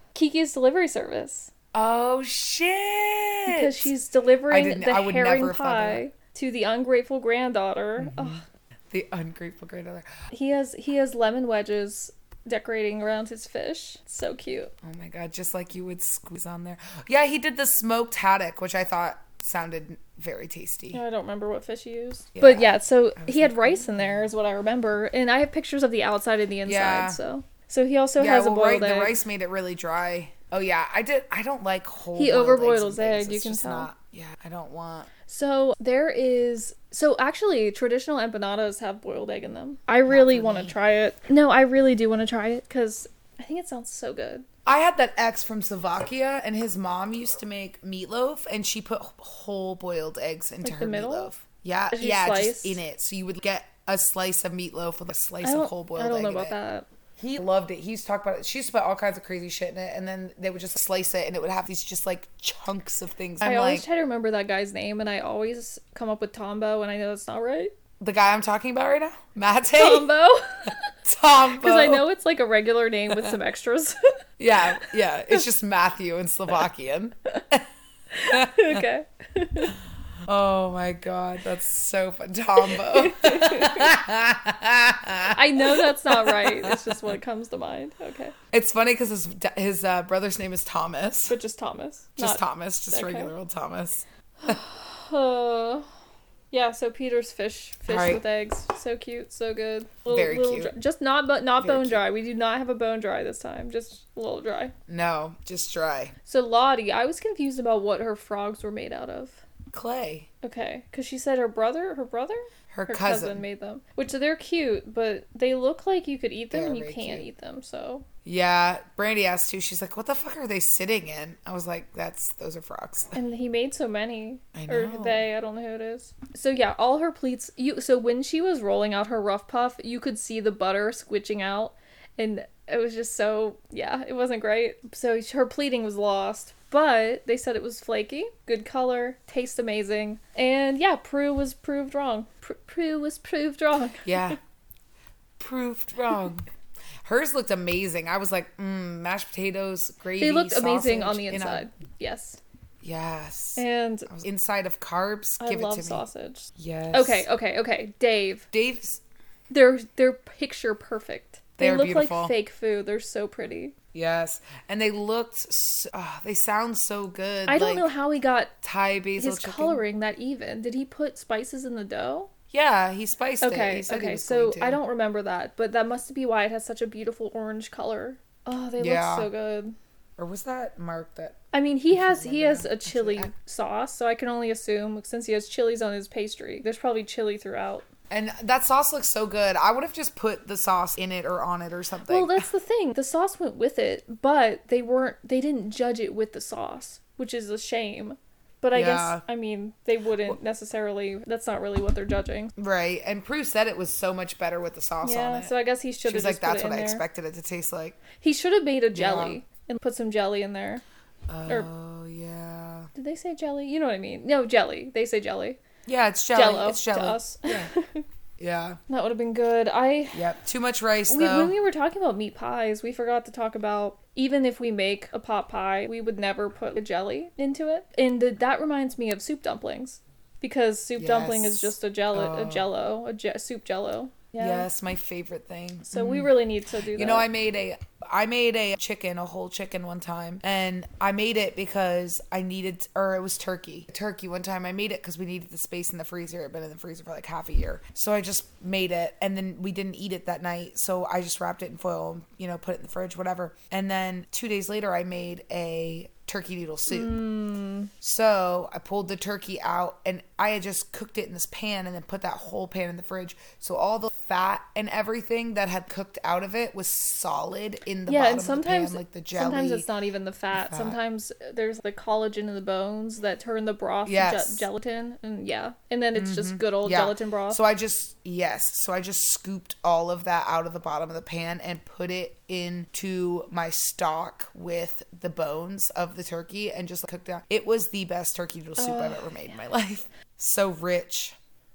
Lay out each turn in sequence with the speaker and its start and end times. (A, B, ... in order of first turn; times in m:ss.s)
0:00.1-0:01.5 A
0:01.7-0:03.9 B
0:03.5-0:08.4 A
0:04.5-0:06.0 B
0:08.0-0:10.1 B
0:10.3-0:14.7 A
0:14.8-0:21.0 B
0:20.9-0:29.2 A
0:22.4-0:24.3 B
0:26.6-0:27.2 B
0:28.2-0:35.1 B
0:32.1-0:33.9 A
0:35.3-0:44.4 A
0:40.1-0:40.7 B
0:44.6-0:56.5 B
0:50.6-0:51.3 A
0:51.9-0:52.8 A
0:55.4-0:56.9 A
0:57.2-1:03.8 B
1:03.4-1:07.7 A
1:08.0-1:10.1 B
1:09.7-1:10.9 A
1:11.0-1:12.0 B
1:11.6-1:14.0 A
1:14.4-1:17.6 B
1:18.1-1:19.8 A
1:18.2-1:18.8 B
1:20.2-1:27.1 B
1:22.6-1:23.9 A
1:25.3-1:28.3 A
1:28.5-1:31.4 B
1:31.3-1:33.3 A
1:32.2-1:34.6 B
1:34.4-1:35.9 A
1:36.5-1:44.7 A
1:37.9-1:38.2 B
1:40.1-1:40.7 B
1:41.6-1:42.0 B
1:44.9-1:46.1 B
1:46.2-1:49.4 A
1:49.7-1:50.3 B
1:50.4-1:58.0 A
1:52.7-1:53.4 B
1:56.5-1:57.2 B
1:58.2-2:03.2 B
2:03.1-2:24.4 A
2:04.5-2:05.3 B
2:24.0-2:24.4 B
2:25.4-2:26.4 B
2:27.0-2:31.6 B
2:30.2-2:32.4 A
2:32.8-2:37.3 B
2:33.6-2:34.1 A
2:35.4-2:38.5 A
2:38.5-2:39.0 B
2:39.5-2:43.7 A
2:41.6-2:42.3 B
2:43.9-2:47.9 B
2:47.5-2:48.5 A
2:48.6-2:49.8 B
2:49.2-2:52.3 A
2:52.5-2:54.8 B
2:53.4-2:59.7 A
2:58.8-2:59.3 B
3:00.2-3:03.3 B
3:01.5-3:07.8 A
3:08.1-3:12.4 B
3:12.1-3:22.5 A
3:18.7-3:19.2 B
3:22.6-3:25.5 B
3:25.0-3:27.0 A
3:26.0-3:28.0 B
3:28.2-3:30.8 A
3:28.9-3:29.4 B
3:31.3-3:32.9 B
3:32.9-3:35.6 A
3:35.8-3:37.7 B
3:36.3-3:38.0 A
3:38.4-3:38.8 B
3:38.9-3:40.2 A
3:40.1-3:41.5 B
3:41.1-3:54.7 A
3:51.0-3:52.7 B
3:54.4-3:56.3 B
3:55.9-3:57.3 A
3:56.9-4:17.2 B
4:16.9-4:17.9 A
4:18.0-4:29.9 B
4:28.1-4:37.6 A
4:30.5-4:31.0 B
4:34.0-4:34.6 B
4:36.1-4:51.4 B
4:48.8-4:49.6 A